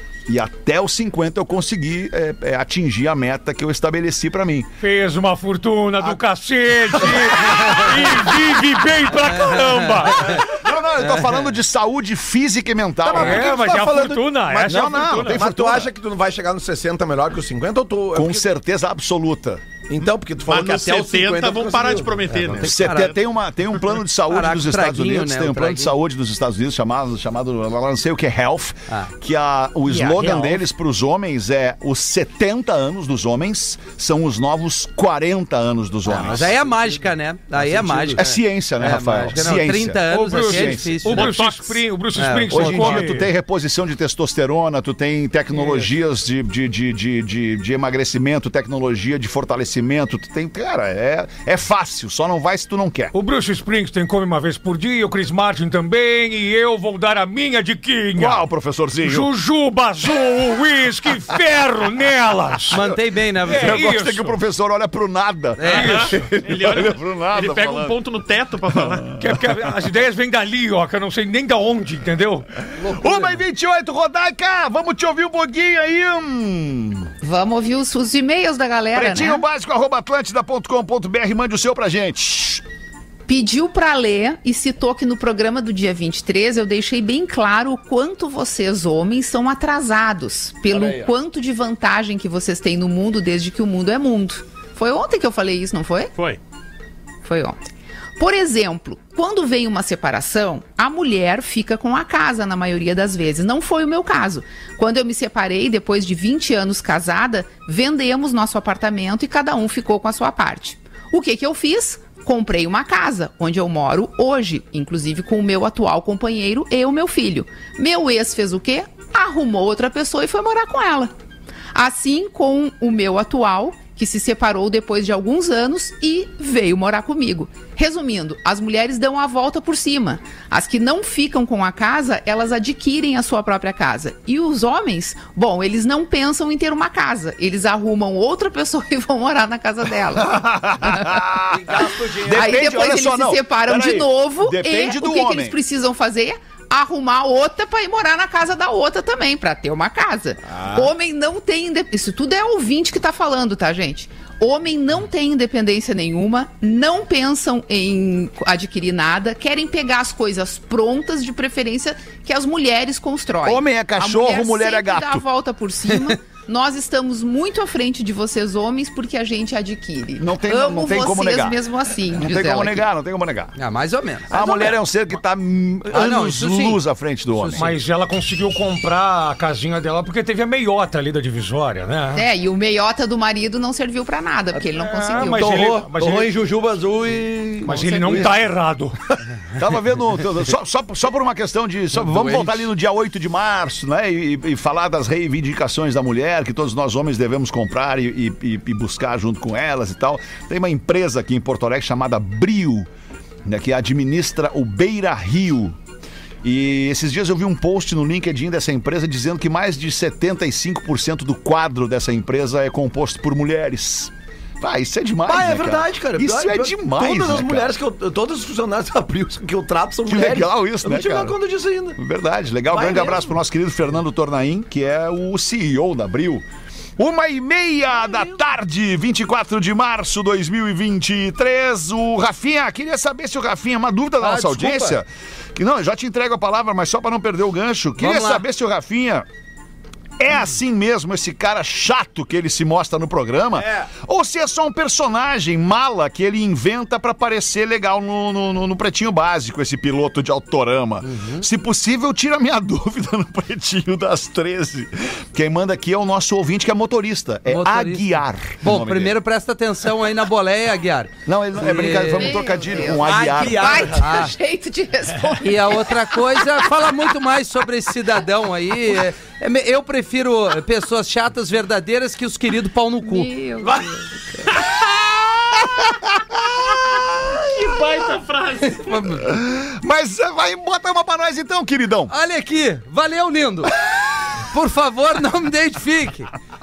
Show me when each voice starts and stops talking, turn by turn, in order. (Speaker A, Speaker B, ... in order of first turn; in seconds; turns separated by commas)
Speaker A: 0.3-4.7, Speaker B: 4.8-10.6, Speaker C: 9.1-10.4, Speaker A: 10.4-13.6, Speaker D: 13.1-18.5, Speaker B: 13.1-15.5, Speaker A: 14.6-15.9, Speaker A: 18.1-19.6, Speaker D: 19.9-22.2, Speaker E: 20.5-23.1, Speaker C: 22.3-23.2, Speaker A: 22.6-36.5, Speaker C: 24.3-25.9, Speaker C: 30.0-30.4, Speaker C: 36.1-41.4, Speaker D: 36.1-36.5, Speaker D: 37.6-38.2, Speaker A: 38.2-41.1, Speaker B: 40.0-43.3, Speaker E: 41.1-41.9, Speaker C: 42.1-43.0, Speaker A: 42.5-53.1, Speaker B: 45.6-45.9, Speaker B: 53.1-58.5, Speaker A: 58.1-59.3, Speaker B: 59.0-62.9, Speaker C: 62.7-63.9, Speaker B: 63.4-64.4, Speaker A: 63.5-68.0, Speaker C: 65.6-66.1, Speaker B: 65.7-66.3, Speaker E: 65.7-69.2, Speaker A: 68.7-69.4, Speaker B: 69.2-72.5, Speaker C: 72.8-73.4, Speaker A: 72.8-77.1, Speaker F: 77.2-79.4, Speaker A: 78.9-82.6, Speaker F: 83.3-96.1, Speaker D: 90.7-91.1, Speaker E: 96.2-96.4, Speaker F: 97.2-97.6, Speaker F: 98.2-121.1, Speaker F: 121.7-140.9, Speaker A: 140.2-145.6, Speaker D: 141.5-142.8, Speaker F: 142.3-172.9, Speaker D: 150.5-150.9, Speaker A: 163.4-165.2, Speaker A: 170.2-173.6, Speaker C: 173.6-174.4, Speaker A: 174.3-177.7, Speaker F: 174.3-174.8, Speaker C: 175.9-176.8, Speaker C: 177.4-177.8, Speaker B: 177.6-182.3, Speaker F: 182.1-185.7, Speaker B: 184.8-186.4, Speaker D: 185.2-188.4, Speaker B: 187.6-189.0, Speaker F: 187.8-188.1, Speaker A: 189.6-202.9, Speaker C: 192.1-192.5, Speaker A: 203.4-205.8, Speaker A: 206.4-217.7, Speaker D: 215.3-222.0, Speaker A: 220.1-221.4, Speaker A: 222.0-226.4, Speaker D: 222.7-223.3, Speaker A: 227.0-239.3, Speaker C: 234.2-234.9, Speaker C: 238.0-238.4, Speaker A: 240.2-259.2, Speaker D: 243.6-243.9, Speaker C: 251.0-251.5, Speaker C: 257.5-262.4, Speaker A: 261.3-264.0, Speaker F: 262.1-266.7, Speaker D: 262.9-264.1, Speaker C: 264.0-264.3, Speaker C: 265.4-273.3, Speaker F: 273.0-274.6, Speaker D: 273.6-273.9, Speaker A: 275.6-277.5, Speaker E: 277.4-279.0, Speaker C: 278.7-279.3, Speaker A: 279.2-282.1, Speaker C: 282.1-283.8, Speaker C: 284.4-286.3